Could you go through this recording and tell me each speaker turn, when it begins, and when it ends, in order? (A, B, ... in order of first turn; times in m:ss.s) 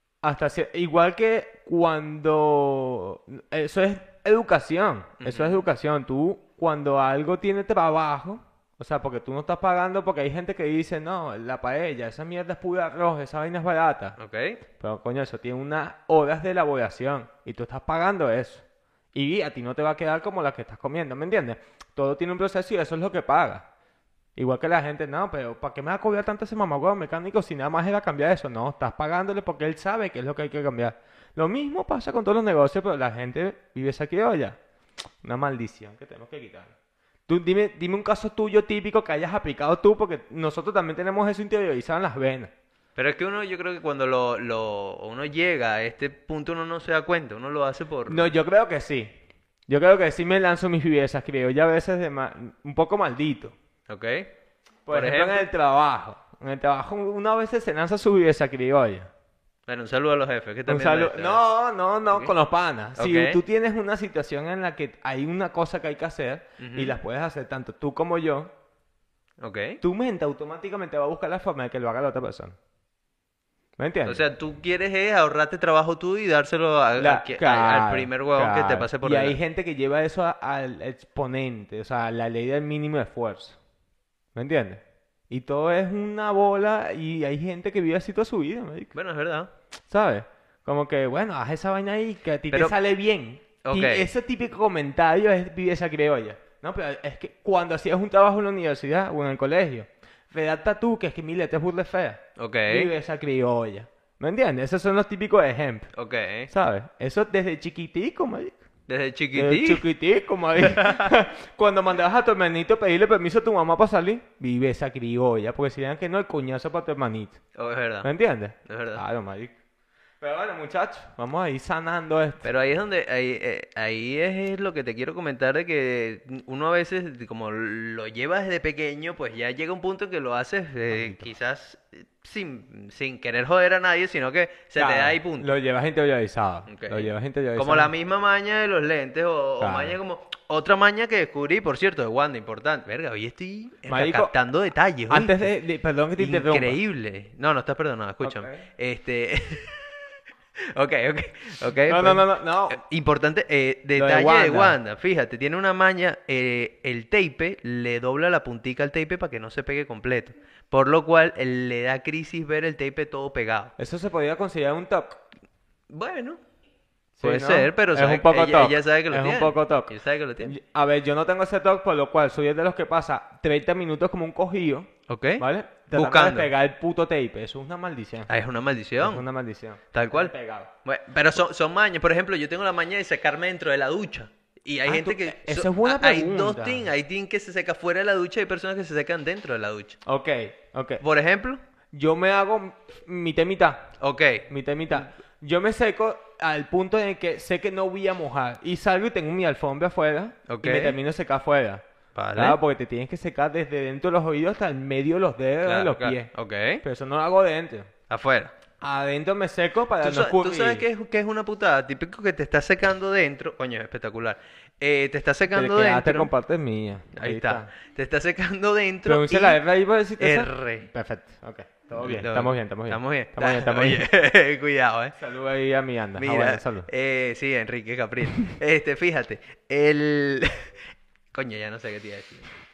0:00.2-0:14.2 A
0:05.2-0:05.6 B
0:14.2-0:14.6 B
0:14.8-0:23.7 A
0:24.4-0:34.6 A
0:35.2-0:36.7 A
0:37.3-0:42.5 A
0:43.0-0:48.3 B
0:48.1-0:49.1 A
0:49.7-0:53.6 A
0:53.9-0:54.3 B
0:54.9-0:59.1 A
0:54.9-0:55.5 B
0:59.7-1:01.4 B
1:00.7-1:08.5 A
1:03.0-1:03.4 B
1:06.6-1:07.0 B
1:09.4-1:09.8 B
1:09.8-1:12.6 A
1:13.8-1:14.2 A
1:14.0-1:19.4 B
1:17.0-1:23.6 A
1:24.4-1:28.9 A
1:28.9-1:29.5 B
1:29.9-1:45.9 A
1:32.5-1:32.8 B
1:33.6-1:34.1 B
1:42.4-1:42.9 B
1:45.9-1:46.5 B
1:46.5-1:48.6 A
1:48.9-1:49.9 B
1:49.3-1:57.4 A
1:50.6-1:51.1 B
1:57.6-1:58.1 B
1:58.0-1:59.5 A
1:58.7-1:59.0 B
2:00.2-2:02.4 A
2:02.4-2:15.5 B
2:10.9-2:11.3 A
2:14.8-2:17.9 A
2:16.7-2:25.4 B
2:19.6-2:20.0 A
2:23.9-2:24.3 A
2:25.1-2:26.8 A
2:26.2-2:29.9 B
2:28.2-2:28.7 A
2:30.7-2:43.7 B
2:31.9-2:32.8 A
2:34.0-2:34.8 A
2:43.8-2:45.2 A
2:45.9-2:46.4 B
2:47.2-2:58.3 A
2:47.2-2:50.6 B
2:55.1-2:56.5 B
2:58.3-2:59.3 B
2:59.0-3:00.7 A
2:59.9-3:10.0 B
3:04.9-3:06.9 A
3:10.1-3:11.0 A
3:11.0-3:11.6 B
3:11.9-3:13.9 A
3:14.0-3:14.5 B
3:14.5-3:21.8 A
3:20.5-3:21.0 B
3:22.2-3:22.6 B
3:22.4-3:26.3 A
3:25.6-3:26.8 B
3:26.8-3:27.9 A
3:28.1-3:28.6 B
3:28.8-3:30.8 A
3:30.0-3:36.3 B
3:35.5-3:37.7 A
3:37.1-3:39.6 B
3:39.0-3:44.1 A
3:40.2-3:40.9 B
3:42.0-3:45.2 B
3:45.2-3:46.9 A
3:46.2-3:50.7 B
3:51.3-3:52.5 B